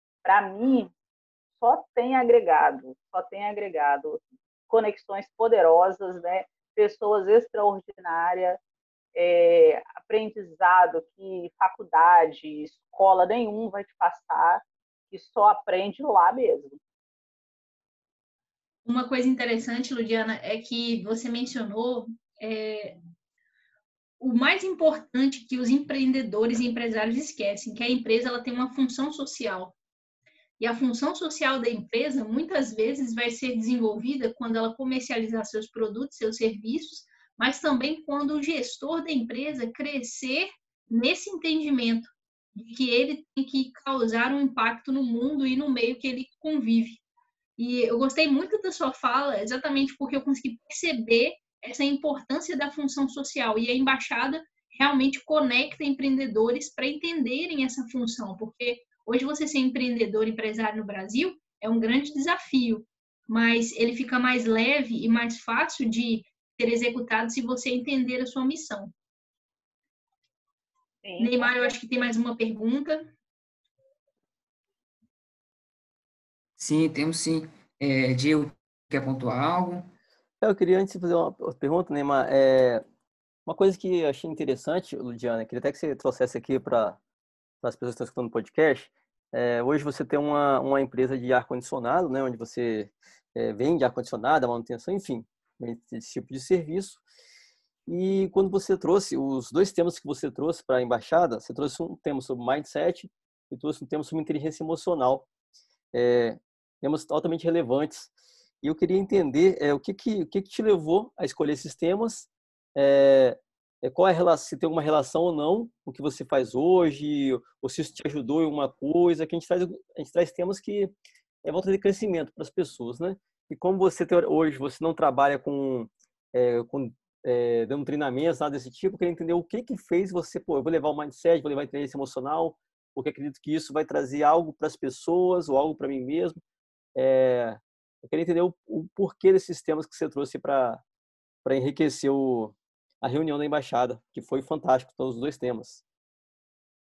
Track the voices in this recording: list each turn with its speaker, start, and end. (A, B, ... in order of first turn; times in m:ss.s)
0:00.2-0:00.9 A
0:01.6-0:08.6 A
0:09.2-0:16.8 A
0:18.8-0:23.0 B
0:24.2-0:29.8 B
0:30.6-0:47.0 B
0:47.6-1:08.9 B
1:11.0-1:11.8 A
1:11.2-1:13.1 B
1:16.6-1:19.9 C
1:20.4-1:22.8 D
1:23.5-1:27.0 D
1:27.6-1:37.0 D
1:37.9-1:45.3 D
1:45.9-2:00.9 D
2:01.4-2:16.4 D
2:17.0-2:20.8 D
2:21.4-2:25.8 D